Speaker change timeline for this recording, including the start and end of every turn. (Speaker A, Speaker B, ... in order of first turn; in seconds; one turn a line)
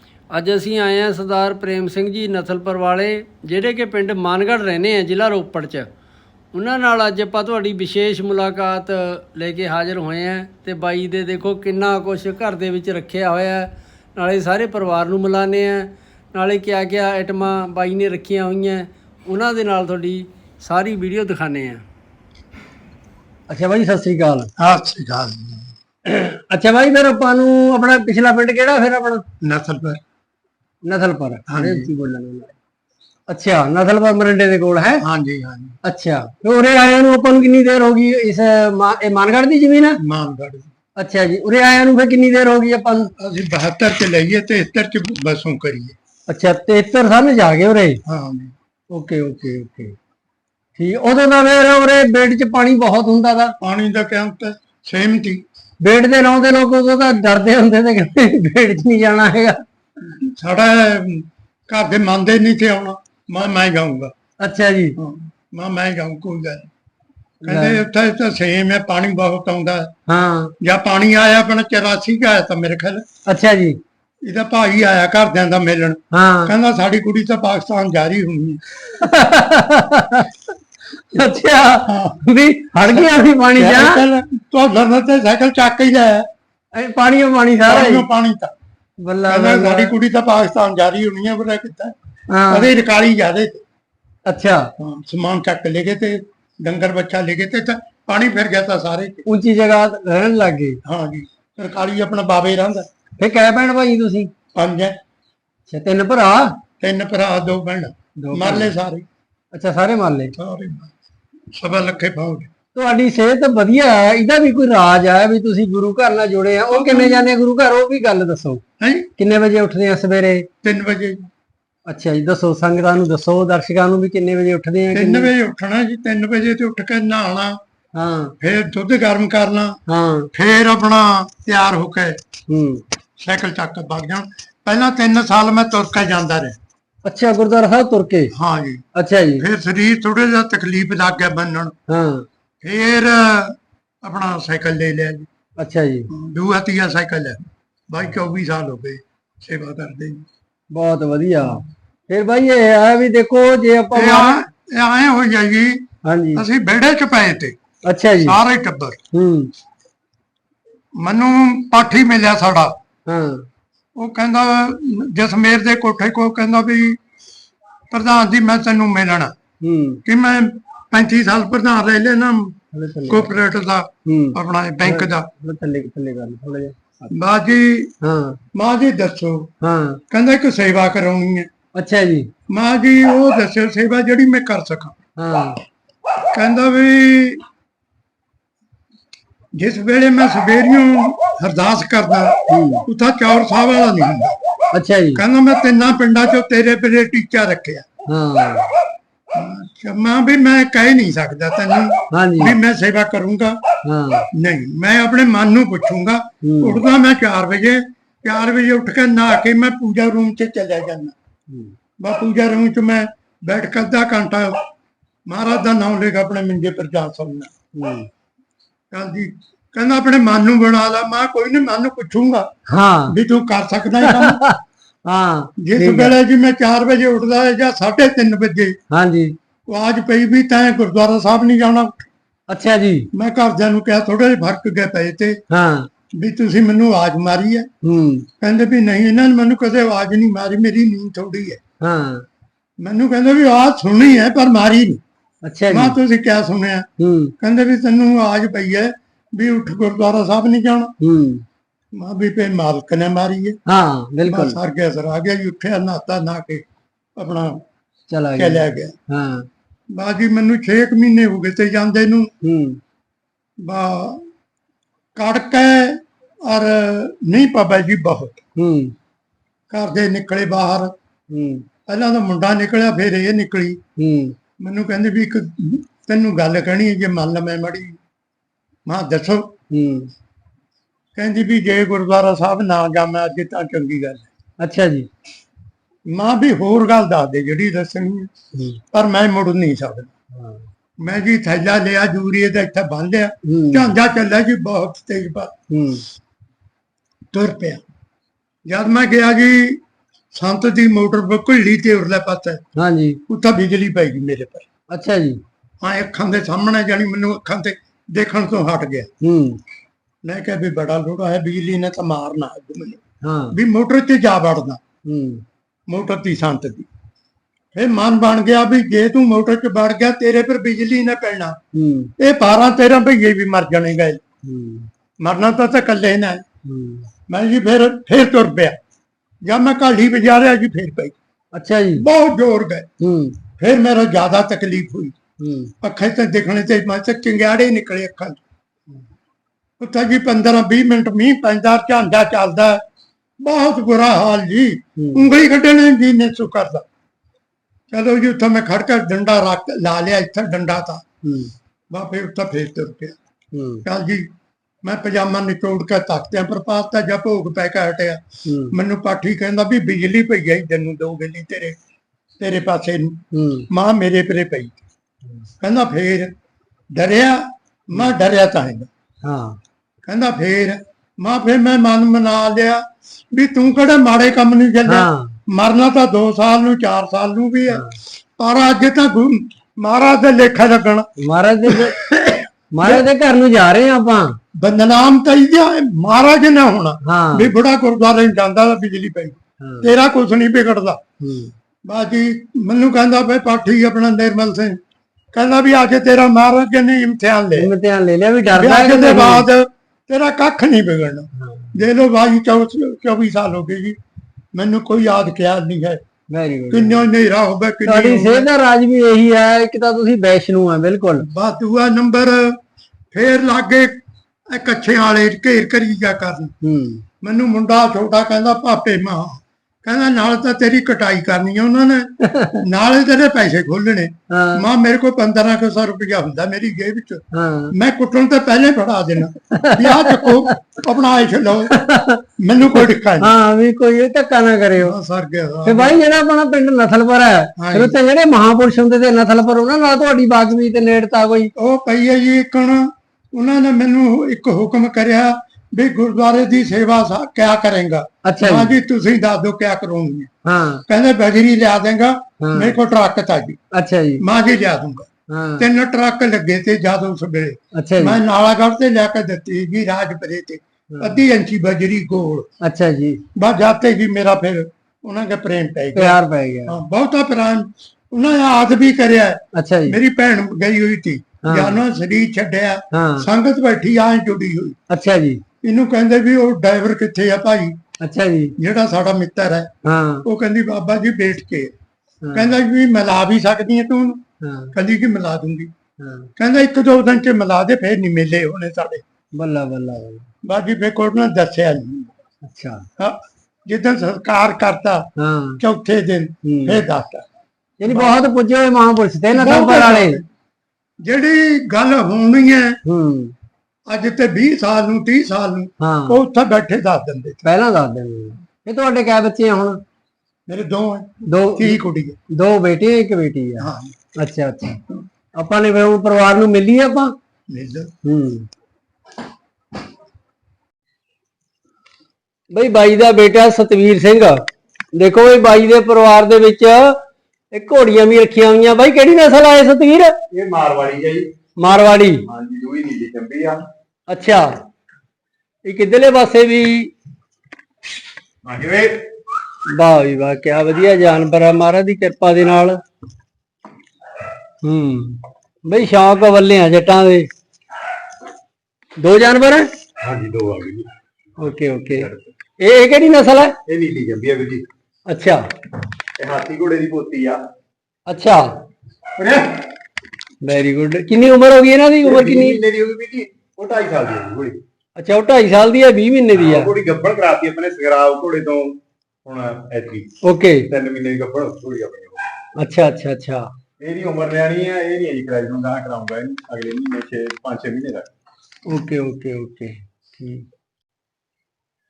Speaker A: 0.3-5.9
Speaker A: 6.5-21.8
Speaker A: 23.5-24.5
Speaker B: 24.6-25.7
Speaker A: 26.1-29.2
Speaker B: 29.4-30.0
Speaker A: 30.8-32.5
Speaker B: 31.5-31.9
Speaker A: 33.3-35.0
Speaker B: 35.0-35.8
Speaker A: 35.8-40.0
Speaker B: 40.0-40.7
Speaker A: 41.0-43.1
Speaker B: 43.2-46.0
Speaker A: 46.3-48.0
Speaker B: 48.0-48.5
Speaker A: 48.9-49.9
Speaker A: 50.8-53.5
Speaker B: 53.6-55.4
Speaker A: 55.8-59.6
Speaker B: 60.3-64.1
Speaker A: 64.4-65.0
Speaker B: 65.0-66.7
Speaker A: 67.4-67.8
Speaker B: 67.5-69.9
Speaker A: 70.1-70.5
Speaker B: 70.6-73.0
Speaker A: 73.3-73.8
Speaker B: 74.2-78.6
Speaker A: 76.1-76.5
Speaker A: 78.8-80.3
Speaker A: 81.1-84.0
Speaker B: 81.9-82.2
Speaker B: 82.9-86.3
Speaker A: 86.8-88.1
Speaker B: 87.7-88.5
Speaker A: 89.0-89.9
Speaker B: 89.3-91.9
Speaker A: 92.3-92.7
Speaker B: 92.5-93.6
Speaker A: 94.3-94.7
Speaker B: 94.8-99.2
Speaker A: 99.2-100.8
Speaker B: 100.8-102.8
Speaker A: 103.2-104.3
Speaker B: 104.5-104.9
Speaker A: 105.7-106.6
Speaker B: 106.8-109.0
Speaker A: 108.2-108.7
Speaker A: 109.5-110.3
Speaker B: 110.4-110.9
Speaker B: 111.5-112.5
Speaker A: 112.7-118.6
Speaker B: 116.7-117.3
Speaker B: 118.8-119.1
Speaker A: 119.2-120.5
Speaker B: 120.6-121.2
Speaker A: 121.9-125.3
Speaker B: 124.9-127.6
Speaker A: 127.9-128.3
Speaker B: 128.4-129.8
Speaker A: 129.9-130.3
Speaker B: 130.3-132.2
Speaker A: 132.5-132.8
Speaker B: 133.2-136.6
Speaker A: 137.0-138.3
Speaker B: 138.3-138.8
Speaker A: 138.9-139.4
Speaker B: 139.4-141.7
Speaker A: 141.9-142.2
Speaker B: 142.6-145.3
Speaker A: 145.6-146.1
Speaker B: 146.1-150.2
Speaker A: 150.7-154.4
Speaker B: 153.9-155.8
Speaker A: 156.0-156.4
Speaker B: 156.3-157.6
Speaker A: 157.8-158.4
Speaker B: 158.2-159.0
Speaker A: 159.1-159.5
Speaker B: 161.0-162.7
Speaker A: 163.1-163.4
Speaker B: 164.0-167.0
Speaker B: 167.9-169.3
Speaker A: 169.6-170.0
Speaker B: 170.1-172.5
Speaker A: 172.7-173.3
Speaker B: 173.1-175.3
Speaker A: 174.1-177.1
Speaker B: 177.1-177.9
Speaker A: 178.0-178.4
Speaker B: 178.5-179.5
Speaker A: 179.6-180.0
Speaker B: 180.1-181.5
Speaker A: 181.7-182.3
Speaker B: 182.5-184.9
Speaker A: 185.2-185.6
Speaker B: 186.3-187.4
Speaker B: 189.6-192.3
Speaker A: 192.5-192.8
Speaker B: 192.9-194.3
Speaker A: 194.7-195.2
Speaker B: 195.2-197.8
Speaker A: 198.1-198.7
Speaker B: 199.3-203.6
Speaker A: 202.1-202.5
Speaker A: 203.8-204.3
Speaker B: 204.3-211.1
Speaker A: 206.4-206.8
Speaker A: 211.5-211.7
Speaker B: 212.0-214.6
Speaker B: 215.3-217.5
Speaker A: 217.8-218.1
Speaker B: 218.9-222.5
Speaker A: 222.7-223.1
Speaker B: 223.1-224.4
Speaker A: 224.0-226.1
Speaker B: 225.6-228.8
Speaker A: 228.9-229.3
Speaker B: 229.7-232.0
Speaker A: 232.5-233.1
Speaker B: 233.1-235.4
Speaker A: 235.5-235.9
Speaker B: 236.2-237.7
Speaker A: 237.8-238.3
Speaker B: 238.4-241.6
Speaker A: 241.8-242.2
Speaker B: 242.8-245.0
Speaker A: 245.4-245.9
Speaker B: 245.7-246.9
Speaker A: 247.0-247.3
Speaker B: 247.4-250.9
Speaker A: 251.0-251.4
Speaker B: 251.9-253.6
Speaker A: 253.7-254.6
Speaker B: 254.2-256.6
Speaker B: 257.2-257.6
Speaker A: 258.1-259.5
Speaker B: 258.4-258.9
Speaker B: 259.9-262.3
Speaker A: 262.4-262.8
Speaker B: 263.6-264.2
Speaker B: 265.2-268.4
Speaker A: 268.6-268.9
Speaker B: 269.7-270.9
Speaker A: 271.3-271.6
Speaker B: 271.9-273.8
Speaker A: 274.0-274.3
Speaker B: 274.6-278.0
Speaker B: 278.9-279.5
Speaker A: 279.7-280.1
Speaker B: 281.1-284.3
Speaker A: 284.6-285.1
Speaker B: 286.1-288.3
Speaker A: 288.5-288.8
Speaker B: 288.9-290.1
Speaker A: 290.3-290.7
Speaker B: 291.0-295.5
Speaker A: 293.4-293.9
Speaker A: 295.7-296.0
Speaker B: 297.3-297.8
Speaker B: 298.7-299.8
Speaker B: 300.4-302.6
Speaker A: 302.8-303.2
Speaker B: 303.3-304.7
Speaker A: 304.9-305.4
Speaker B: 305.8-309.1
Speaker A: 309.2-309.6
Speaker B: 310.2-313.0
Speaker A: 313.2-313.6
Speaker B: 313.5-314.8
Speaker A: 315.1-315.4
Speaker B: 315.9-316.9
Speaker B: 317.7-321.6
Speaker A: 321.7-322.1
Speaker B: 322.2-324.2
Speaker A: 324.4-324.9
Speaker B: 325.2-326.4
Speaker A: 326.6-327.1
Speaker B: 327.3-328.8
Speaker B: 329.4-331.1
Speaker A: 331.5-332.0
Speaker B: 331.9-332.9
Speaker A: 333.0-333.4
Speaker B: 333.6-335.1
Speaker A: 335.4-335.7
Speaker B: 335.8-338.4
Speaker B: 339.8-342.8
Speaker B: 343.4-346.8
Speaker A: 345.0-345.3
Speaker B: 347.9-351.0
Speaker A: 351.2-351.5
Speaker B: 351.9-353.1
Speaker A: 353.5-353.8
Speaker B: 353.9-354.3
Speaker B: 354.8-361.8
Speaker A: 358.4-358.7
Speaker B: 362.4-363.2
Speaker A: 363.3-363.7
Speaker B: 363.7-364.8
Speaker B: 365.6-366.3
Speaker B: 366.9-368.9
Speaker A: 369.2-369.6
Speaker B: 370.1-372.8
Speaker B: 373.3-377.8
Speaker A: 374.9-375.4
Speaker B: 378.4-381.1
Speaker A: 381.2-381.9
Speaker B: 381.7-383.1
Speaker A: 382.8-384.4
Speaker B: 384.6-391.0
Speaker A: 387.1-387.5
Speaker A: 389.6-389.9
Speaker A: 391.2-391.5
Speaker B: 391.9-394.8
Speaker B: 395.3-397.7
Speaker A: 397.6-399.5
Speaker B: 398.6-404.0
Speaker A: 401.4-401.7
Speaker B: 404.5-406.0
Speaker A: 406.3-407.0
Speaker B: 406.7-408.5
Speaker A: 407.9-411.2
Speaker B: 411.2-412.6
Speaker B: 413.1-414.0
Speaker B: 414.5-416.5
Speaker A: 416.6-417.0
Speaker B: 417.2-431.7
Speaker A: 422.2-422.6
Speaker A: 424.3-424.6
Speaker A: 427.3-427.7
Speaker A: 429.5-430.4
Speaker A: 431.7-432.2
Speaker B: 432.4-433.3
Speaker A: 432.7-434.9
Speaker B: 434.8-436.0
Speaker A: 435.6-441.5
Speaker B: 437.6-438.0
Speaker B: 441.6-450.3
Speaker A: 448.2-448.7
Speaker A: 450.4-450.8
Speaker B: 450.9-453.6
Speaker A: 452.4-452.7
Speaker A: 453.7-454.2
Speaker B: 454.2-455.1
Speaker A: 455.3-455.7
Speaker B: 455.6-462.5
Speaker A: 457.7-458.2
Speaker A: 460.9-461.2
Speaker A: 462.6-463.2
Speaker B: 463.4-474.8
Speaker A: 465.9-466.7
Speaker A: 469.5-470.0
Speaker A: 471.4-471.8
Speaker A: 472.9-473.3
Speaker A: 474.9-475.4
Speaker B: 475.6-477.7
Speaker A: 478.0-478.5
Speaker B: 478.6-479.7
Speaker A: 479.8-480.2
Speaker B: 480.2-481.7
Speaker A: 482.2-482.6
Speaker B: 482.3-484.2
Speaker A: 484.4-484.7
Speaker B: 484.7-485.7
Speaker A: 486.0-486.3
Speaker B: 486.4-489.0
Speaker A: 489.3-490.2
Speaker B: 490.4-492.1
Speaker A: 492.4-492.8
Speaker B: 493.7-495.1
Speaker A: 495.2-495.6
Speaker B: 495.6-497.2
Speaker A: 496.4-496.8
Speaker A: 497.8-500.2
Speaker B: 497.9-498.2
Speaker B: 499.3-500.2
Speaker B: 501.0-502.8
Speaker A: 502.9-503.3
Speaker B: 503.9-507.4
Speaker A: 505.8-506.2
Speaker A: 507.4-509.8
Speaker B: 510.5-512.2
Speaker A: 511.3-511.8
Speaker A: 512.3-513.7
Speaker B: 513.6-513.9
Speaker A: 514.2-514.8
Speaker A: 515.4-517.1
Speaker B: 517.5-517.9
Speaker A: 518.0-518.5
Speaker A: 522.5-524.4
Speaker A: 524.9-526.8
Speaker A: 527.5-530.1
Speaker C: 530.3-531.3
Speaker A: 531.6-532.2
Speaker C: 532.2-533.6
Speaker A: 534.1-534.5
Speaker A: 535.6-536.9
Speaker C: 538.4-539.0
Speaker A: 539.7-542.8
Speaker A: 544.6-547.3
Speaker A: 549.0-549.7
Speaker C: 550.0-550.9
Speaker A: 551.4-552.1
Speaker C: 551.9-552.3
Speaker A: 552.6-553.5
Speaker C: 553.7-554.7
Speaker A: 555.1-555.4
Speaker C: 556.2-557.4
Speaker A: 558.1-558.4
Speaker C: 559.2-559.4
Speaker A: 560.4-562.6
Speaker C: 562.0-564.6
Speaker A: 565.0-566.7
Speaker C: 566.3-570.1
Speaker A: 570.2-570.7
Speaker C: 570.7-572.2
Speaker A: 572.6-573.5
Speaker C: 573.8-578.0
Speaker A: 578.7-580.4